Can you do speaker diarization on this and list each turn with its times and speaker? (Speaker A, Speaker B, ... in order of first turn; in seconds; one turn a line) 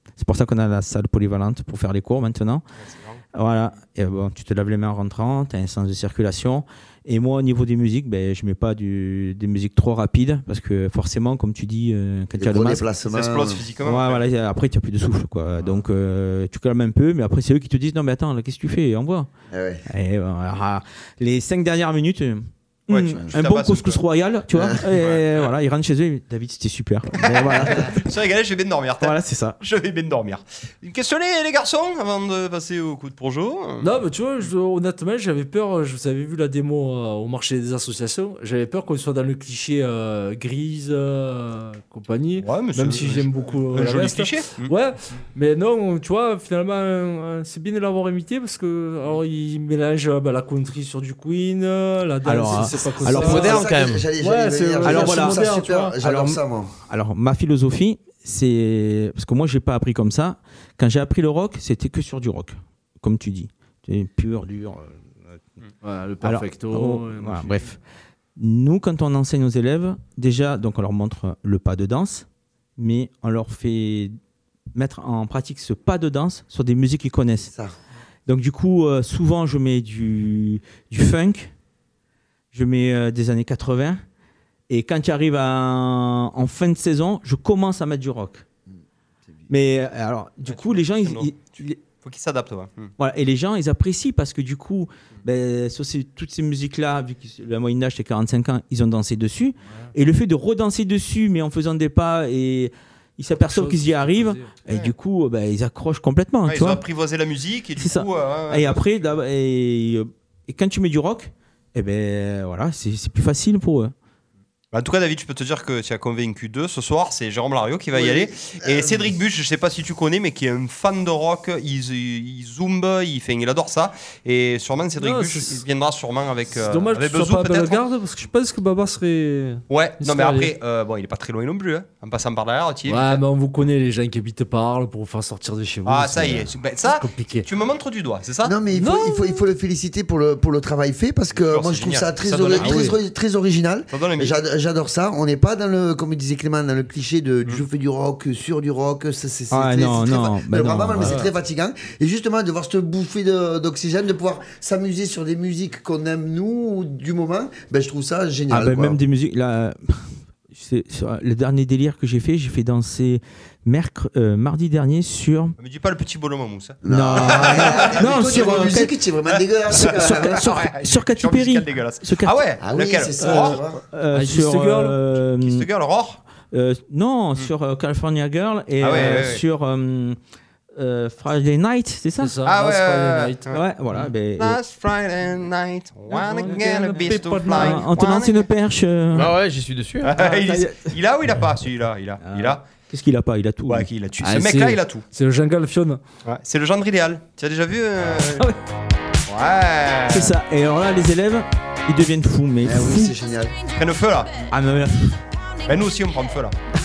Speaker A: 0.2-2.6
Speaker B: 2.8-3.2
Speaker A: 3.3-12.8
Speaker C: 12.4-13.7
Speaker B: 13.1-14.2
Speaker A: 13.8-19.3
Speaker C: 19.5-19.8
Speaker A: 19.9-28.1
Speaker B: 22.9-24.0
Speaker C: 24.5-24.8
Speaker B: 24.9-25.4
Speaker B: 27.2-33.9
Speaker A: 29.0-29.6
Speaker D: 33.8-53.5
Speaker B: 42.4-44.7
Speaker A: 52.2-53.6
Speaker C: 52.7-56.7
Speaker E: 53.1-54.1
Speaker D: 54.2-56.0
Speaker A: 54.8-55.5
Speaker A: 56.0-65.4
Speaker D: 65.8-67.6
Speaker A: 66.2-67.8
Speaker A: 68.4-72.3
Speaker A: 72.8-74.2
Speaker A: 74.7-77.5
Speaker C: 77.5-77.8
Speaker A: 78.3-81.5
Speaker A: 82.5-84.0
Speaker A: 84.7-88.5
Speaker A: 89.5-91.8
Speaker B: 90.5-91.3
Speaker B: 92.0-92.9
Speaker A: 93.0-106.8
Speaker D: 103.4-104.5
Speaker B: 106.5-108.8
Speaker A: 107.8-113.9
Speaker B: 114.7-127.8
Speaker C: 117.9-119.1
Speaker D: 125.0-125.6
Speaker D: 126.5-130.5
Speaker B: 129.7-133.2
Speaker D: 132.9-137.5
Speaker B: 135.9-138.5
Speaker C: 138.4-159.0
Speaker D: 138.8-139.4
Speaker B: 141.3-142.9
Speaker D: 142.5-143.0
Speaker B: 143.9-144.3
Speaker A: 149.5-151.3
Speaker D: 151.0-151.3
Speaker A: 158.5-165.6
Speaker B: 165.6-168.8
Speaker C: 166.8-170.5
Speaker A: 166.9-168.9
Speaker A: 169.7-172.4
Speaker B: 169.8-173.6
Speaker C: 172.6-173.8
Speaker A: 173.9-175.7
Speaker D: 174.1-175.0
Speaker B: 175.4-176.2
Speaker A: 176.5-180.2
Speaker B: 178.8-179.4
Speaker A: 180.8-182.4
Speaker D: 182.2-183.4
Speaker B: 182.4-183.6
Speaker A: 183.5-184.6
Speaker B: 184.4-188.5
Speaker D: 186.1-187.8
Speaker A: 186.9-189.4
Speaker E: 189.1-190.1
Speaker B: 190.0-192.6
Speaker A: 190.2-190.9
Speaker A: 192.2-193.9
Speaker B: 193.7-195.0
Speaker D: 194.2-196.0
Speaker B: 196.2-198.5
Speaker B: 199.3-200.3
Speaker A: 200.1-203.2
Speaker C: 202.6-203.6
Speaker B: 203.8-204.3
Speaker A: 204.5-205.2
Speaker B: 205.7-206.6